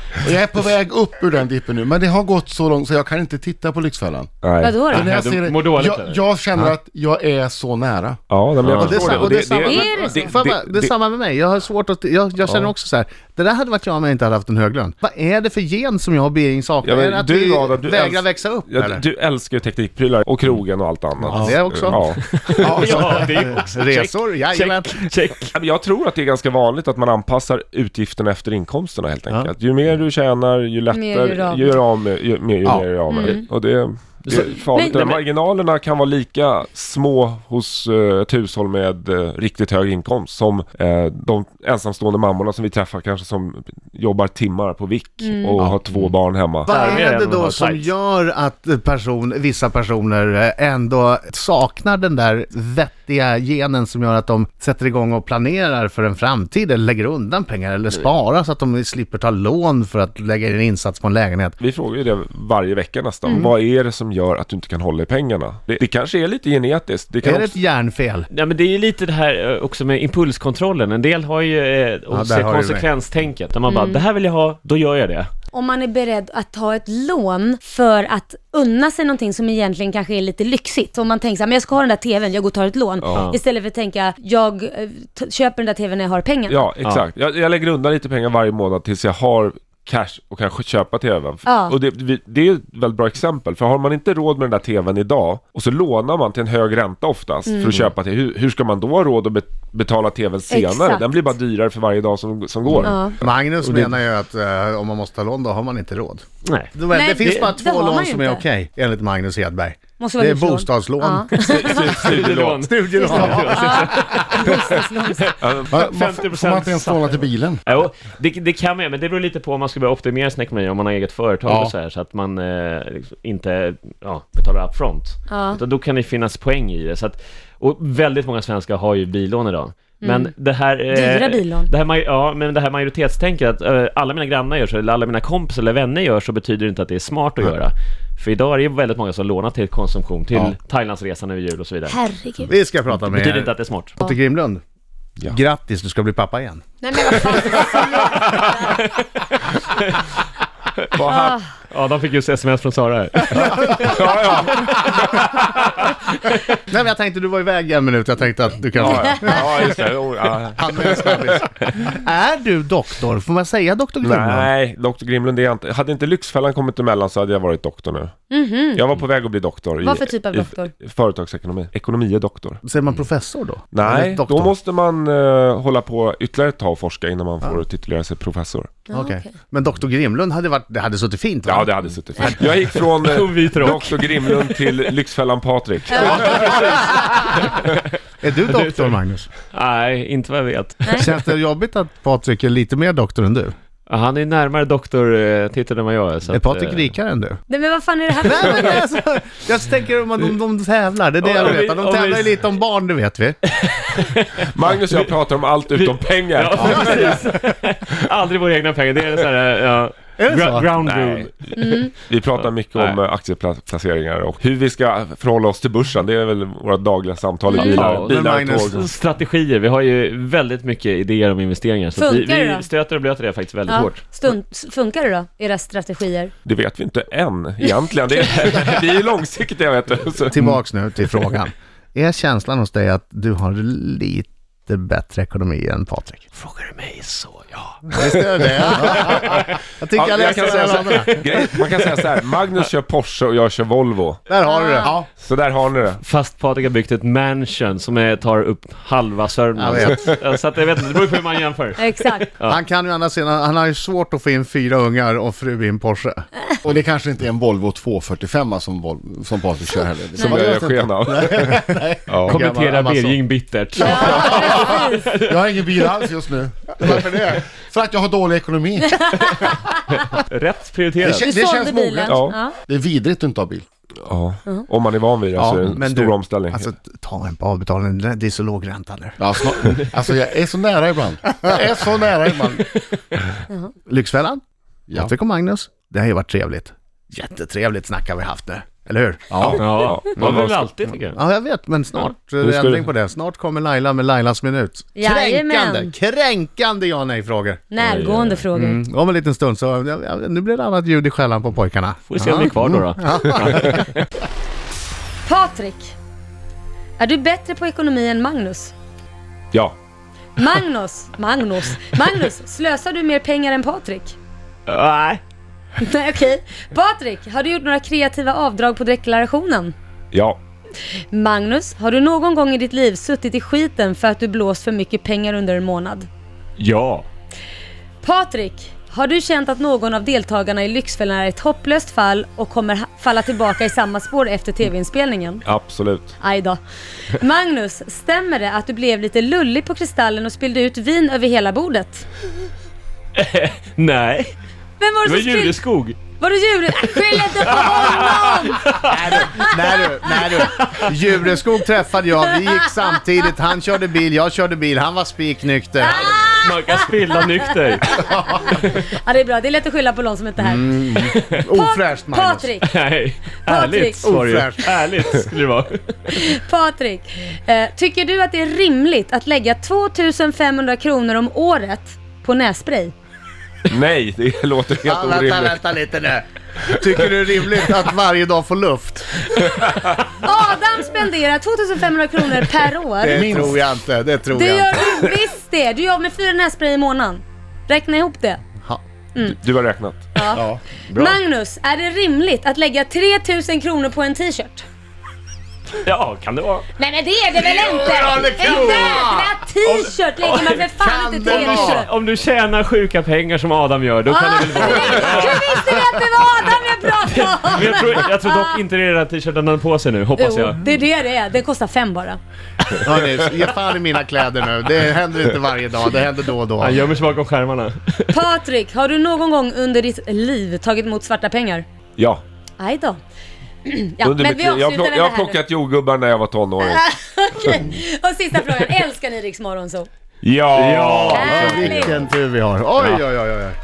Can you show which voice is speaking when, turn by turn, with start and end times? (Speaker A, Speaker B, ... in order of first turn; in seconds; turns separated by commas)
Speaker A: 0.2-4.3, Speaker B: 4.4-4.8, Speaker C: 4.6-5.0, Speaker A: 4.8-8.2, Speaker D: 4.9-6.2, Speaker B: 8.3-10.9, Speaker D: 8.6-9.3, Speaker E: 8.8-19.0, Speaker C: 9.7-10.3, Speaker B: 16.8-22.3, Speaker E: 21.3-22.1, Speaker D: 22.3-25.5, Speaker A: 22.6-23.1, Speaker E: 22.6-25.1, Speaker B: 25.5-46.7, Speaker C: 30.9-31.8, Speaker C: 33.0-33.4, Speaker D: 34.2-35.2, Speaker C: 34.7-35.1, Speaker C: 45.2-45.6, Speaker E: 46.7-61.5, Speaker D: 46.7-47.9, Speaker B: 61.6-67.6, Speaker E: 67.2-68.3, Speaker D: 68.3-75.3, Speaker E: 72.1-72.9, Speaker C: 73.7-74.0, Speaker C: 75.5-86.8, Speaker B: 86.5-103.0, Speaker C: 91.4-91.8, Speaker C: 100.5-101.0, Speaker C: 102.8-103.2, Speaker E: 103.2-111.3, Speaker D: 103.6-103.9, Speaker D: 106.4-106.8, Speaker C: 106.9-108.4, Speaker C: 110.0-112.0, Speaker B: 111.4-112.6, Speaker D: 111.7-142.0, Speaker E: 112.6-113.9, Speaker C: 113.0-115.2, Speaker B: 115.4-115.8, Speaker A: 115.7-117.6, Speaker A: 121.5-121.7, Speaker C: 125.3-125.6, Speaker C: 130.0-130.3, Speaker C: 130.9-131.7, Speaker C: 141.9-142.5, Speaker E: 142.5-144.6, Speaker D: 142.9-143.9, Speaker E: 145.2-146.6, Speaker C: 146.8-148.7, Speaker D: 147.3-150.2, Speaker B: 150.9-151.4, Speaker C: 151.1-151.4, Speaker D: 151.7-153.9, Speaker B: 153.3-155.4, Speaker D: 155.0-156.0, Speaker E: 156.7-159.8, Speaker B: 158.8-161.5, Speaker E: 160.6-164.5, Speaker B: 164.0-168.1, Speaker C: 168.3-168.9, Speaker B: 168.8-172.6, Speaker C: 169.8-170.7, Speaker E: 172.6-174.5, Speaker B: 173.7-178.8, Speaker C: 178.9-179.3, Speaker E: 178.9-182.3, Speaker B: 181.4-186.7, Speaker D: 182.4-184.6, Speaker C: 185.9-187.1, Speaker D: 185.9-187.8, Speaker E: 188.2-189.3, Speaker D: 188.6-188.9, Speaker D: 189.5-191.1, Speaker E: 191.0-193.5, Speaker D: 193.9-196.9, Speaker E: 196.3-197.4, Speaker C: 197.5-198.8, Speaker E: 198.2-203.4, Speaker D: 201.2-202.4, Speaker D: 203.7-205.0, Speaker B: 204.4-207.2, Speaker D: 205.7-211.3, Speaker E: 206.6-207.3, Speaker E: 210.2-210.7, Speaker B: 210.8-218.9, Speaker C: 211.6-211.9, Speaker D: 212.7-213.0, Speaker C: 217.5-217.8, Speaker D: 217.5-224.1, Speaker E: 217.9-218.9, Speaker C: 221.9-222.7, Speaker C: 223.7-226.3, Speaker B: 226.4-230.5, Speaker C: 227.6-228.7, Speaker E: 230.3-236.2, Speaker D: 236.3-237.8, Speaker E: 237.9-241.6, Speaker B: 238.7-239.2, Speaker B: 239.9-244.3, Speaker E: 244.3-244.9, Speaker C: 244.4-244.9, Speaker B: 245.1-246.0, Speaker D: 246.0-252.6, Speaker E: 249.6-250.1, Speaker C: 251.8-252.3, Speaker E: 252.4-256.2, Speaker A: 256.6-262.1, Speaker B: 260.2-261.4, Speaker E: 261.1-263.2, Speaker B: 262.1-262.4, Speaker D: 262.3-265.4, Speaker C: 263.8-265.0, Speaker A: 263.8-269.0, Speaker E: 266.8-267.4, Speaker C: 268.9-270.0, Speaker D: 269.9-271.3, Speaker A: 271.0-273.6, Speaker C: 271.1-272.6, Speaker B: 272.1-272.4, Speaker B: 274.0-276.7, Speaker E: 275.4-279.2, Speaker A: 279.2-282.6, Speaker E: 283.9-284.4, Speaker E: 285.0-289.3, Speaker A: 289.3-290.3, Speaker B: 289.4-290.7, Speaker D: 289.6-291.2, Speaker E: 291.1-297.6, Speaker B: 292.4-292.9, Speaker C: 294.9-295.9, Speaker C: 297.7-298.8, Speaker D: 297.8-298.4, Speaker E: 298.6-303.8, Speaker D: 302.1-304.1, Speaker C: 305.2-305.9, Speaker C: 307.0-308.7, Speaker C: 310.4-314.1, Speaker D: 314.7-315.2, Speaker C: 315.8-319.7, Speaker B: 320.1-320.4, Speaker C: 321.1-326.1, Speaker D: 326.6-327.1, Speaker C: 328.0-335.4, Speaker B: 335.5-336.1, Speaker C: 336.2-342.1, Speaker D: 343.1-344.3, Speaker C: 344.8-345.6, Speaker D: 345.0-346.0, Speaker C: 346.1-350.7, Speaker D: 347.5-349.3, Speaker E: 348.8-356.2, Speaker C: 355.8-356.9, Speaker D: 356.4-358.8, Speaker C: 357.8-362.7, Speaker E: 360.4-362.5, Speaker D: 362.6-366.2, Speaker C: 363.4-364.0, Speaker E: 364.0-364.8, Speaker C: 366.1-372.9, Speaker B: 373.7-375.6, Speaker E: 374.8-379.2, Speaker C: 380.1-383.3, Speaker E: 383.0-385.0, Speaker A: 383.1-383.6, Speaker C: 384.3-388.4, Speaker B: 389.2-390.1, Speaker C: 390.1-394.6, Speaker A: 390.3-390.6, Speaker D: 390.9-391.2, Speaker D: 395.8-396.6, Speaker C: 396.8-401.9, Speaker E: 397.4-399.4, Speaker D: 400.2-400.6, Speaker E: 400.8-401.9, Speaker D: 401.2-405.8, Speaker C: 404.1-408.4, Speaker D: 407.1-410.6, Speaker C: 410.2-412.2, Speaker E: 412.8-416.8, Speaker D: 416.6-418.2, Speaker C: 418.1-421.6, Speaker B: 422.0-422.2, Speaker C: 422.6-423.0, Speaker C: 423.6-425.4, Speaker B: 424.0-426.8, Speaker C: 426.6-429.9, Speaker B: 427.4-427.7, Speaker B: 430.2-432.0, Speaker D: 430.5-431.9, Speaker C: 431.1-432.1, Speaker E: 431.1-433.6